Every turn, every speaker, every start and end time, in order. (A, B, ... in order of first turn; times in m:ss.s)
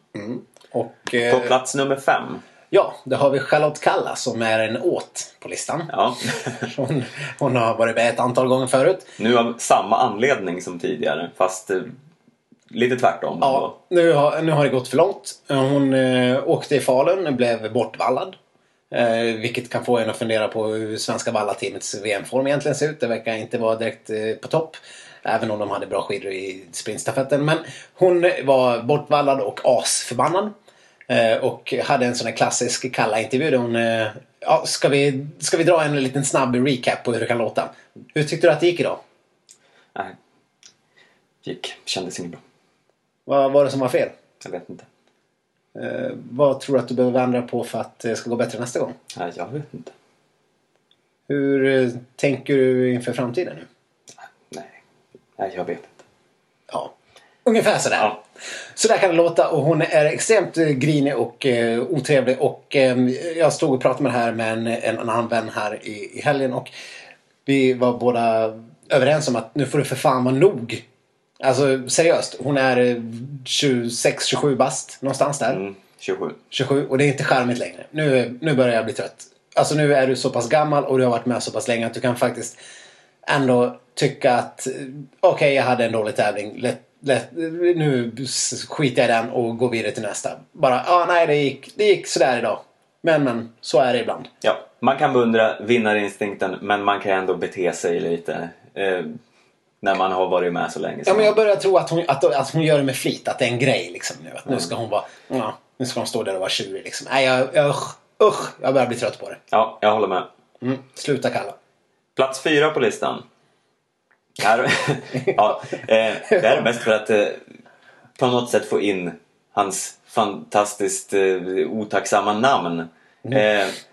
0:00.2-0:01.6 A
0:01.3-0:02.4 B
0:02.7-0:09.1 A
0:05.9-0:06.7 B
0:09.2-0:11.9 B
0:12.7-0:13.7 B
0:13.4-0:18.4 A
0:18.9-0:30.5 A
0:31.1-0:39.0 A
0:41.4-0:42.4 B
0:43.3-0:44.2 A
0:44.4-0:44.9 B
0:45.8-0:49.0 A
0:49.2-0:49.9 B
0:51.3-0:53.7 A
0:54.5-0:54.8 B
0:55.4-0:56.0 B
0:57.4-0:58.2 A
0:58.8-1:06.7 A
1:07.5-1:10.8 A
1:11.4-1:15.6 A
1:15.5-1:16.4 B
1:16.5-1:22.6 A
1:23.3-1:34.3 A
1:34.4-1:39.2 B
1:39.8-1:41.4 B
1:41.1-1:49.4 A
1:49.5-1:50.3 B
1:50.6-1:51.6 A
1:52.2-1:53.2 B
1:54.4-1:57.4 B
1:55.2-1:55.5 A
1:56.3-1:56.7 A
1:58.2-2:03.8 B